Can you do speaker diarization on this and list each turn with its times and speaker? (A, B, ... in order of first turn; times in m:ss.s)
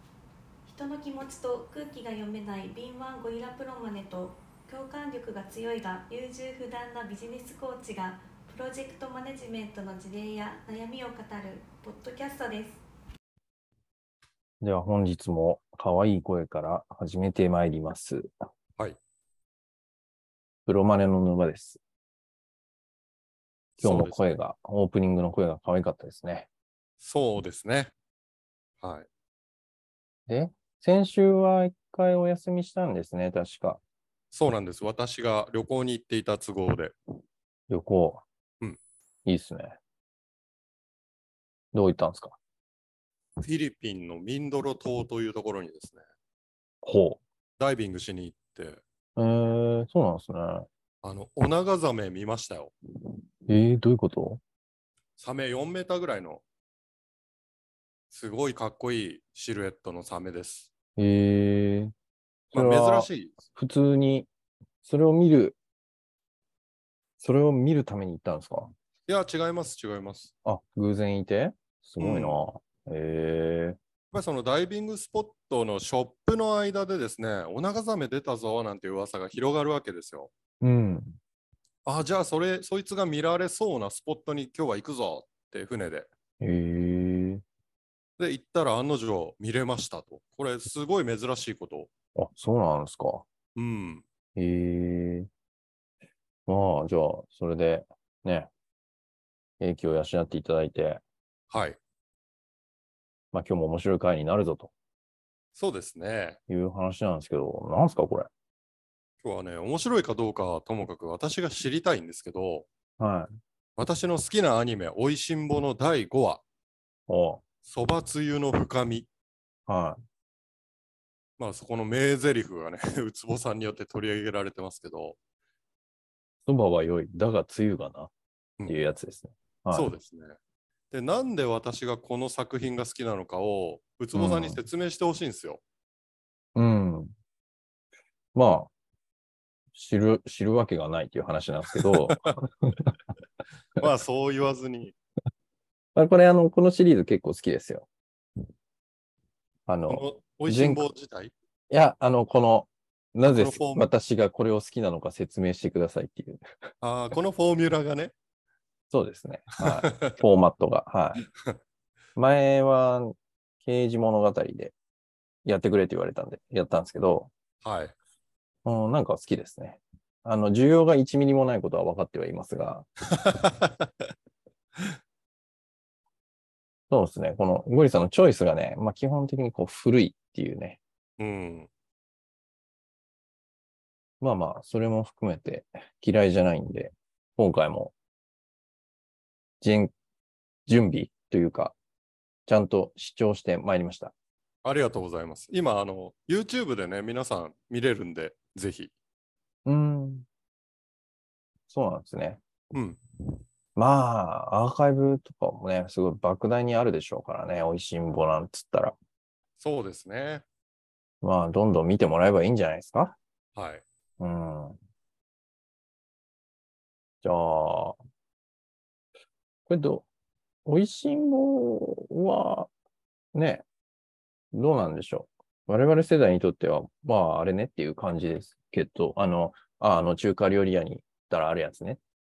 0:00.7-0:12.8 A
0:14.6-0:18.3 B
0:20.7-0:21.8 B
0:23.8-0:24.3 C
0:23.8-0:26.5 B
0:27.0-0:27.9 C
0:28.8-0:29.1 C
0:30.3-0:33.8 B
0:34.3-0:37.0 C
0:37.7-0:38.2 B
0:39.2-0:39.8 B
0:41.7-0:42.4 B
0:43.4-0:46.0 C
0:46.8-0:47.2 B
0:47.6-0:48.8 C
0:49.2-0:50.7 B
0:51.0-0:52.7 C
0:53.5-0:54.4 B
0:55.2-0:56.4 C
0:58.1-1:00.7 C
1:01.0-1:01.9 B
1:02.5-1:04.3 B
1:02.5-1:03.4 C
1:04.8-1:05.6 B
1:07.2-1:08.7 B
1:09.1-1:10.3 C
1:10.4-1:13.8 B
1:12.0-1:12.4 C
1:14.1-1:20.3 C
1:20.6-1:21.2 B
1:21.8-1:26.1 C
1:26.4-1:27.4 B
1:28.2-1:31.9 C
1:32.2-1:33.2 B
1:33.6-1:34.0 C
1:34.4-1:35.3 B
1:36.5-1:38.5 B
1:39.6-1:41.0 B
1:41.5-1:41.8 C
1:43.3-1:44.7 B
1:45.6-1:46.4 C
1:46.5-1:48.3 B
1:49.2-1:52.7 C
1:53.0-1:53.3 B
1:53.8-1:56.4 C
1:57.1-1:57.4 B
1:57.7-1:59.1 C
1:59.7-2:00.0 B
2:01.4-2:05.2 C
2:06.5-2:08.1 B
2:08.7-2:09.9 B
2:09.7-2:10.4 C
2:10.9-2:15.6 C
2:14.2-2:14.6 B
2:16.6-2:17.1 B
2:18.4-2:18.7 B
2:19.7-2:22.8 B
2:21.8-2:22.4 C
2:23.8-2:25.0 C
2:26.0-2:27.9 B
2:29.7-2:30.8 B
2:29.9-2:31.3 C
2:31.7-2:36.4 B
2:33.2-2:33.9 C
2:36.8-2:38.1 C
2:38.9-2:41.2 B
2:39.6-2:40.2 C
2:42.2-2:44.7 B
2:45.4-2:47.3 B
2:47.6-2:48.0 C
2:48.6-2:52.9 B
2:53.1-2:53.9 C
2:56.9-3:00.8 B
3:01.2-3:01.7 C
3:04.2-3:07.9 B
3:09.6-3:09.9 B
3:10.7-3:11.8 B
3:12.5-3:14.1 B
3:14.6-3:18.9 C
3:19.7-3:20.3 B
3:21.7-3:22.4 B
3:22.7-3:23.0 C
3:23.8-3:29.0 B
3:29.6-3:30.4 C
3:31.2-3:33.2 B
3:33.6-3:33.8 C
3:34.2-3:34.8 B
3:37.2-3:38.0 B
3:39.7-3:40.1 B
3:40.6-3:42.7 B
3:43.3-3:43.6 B
3:44.5-3:52.0 B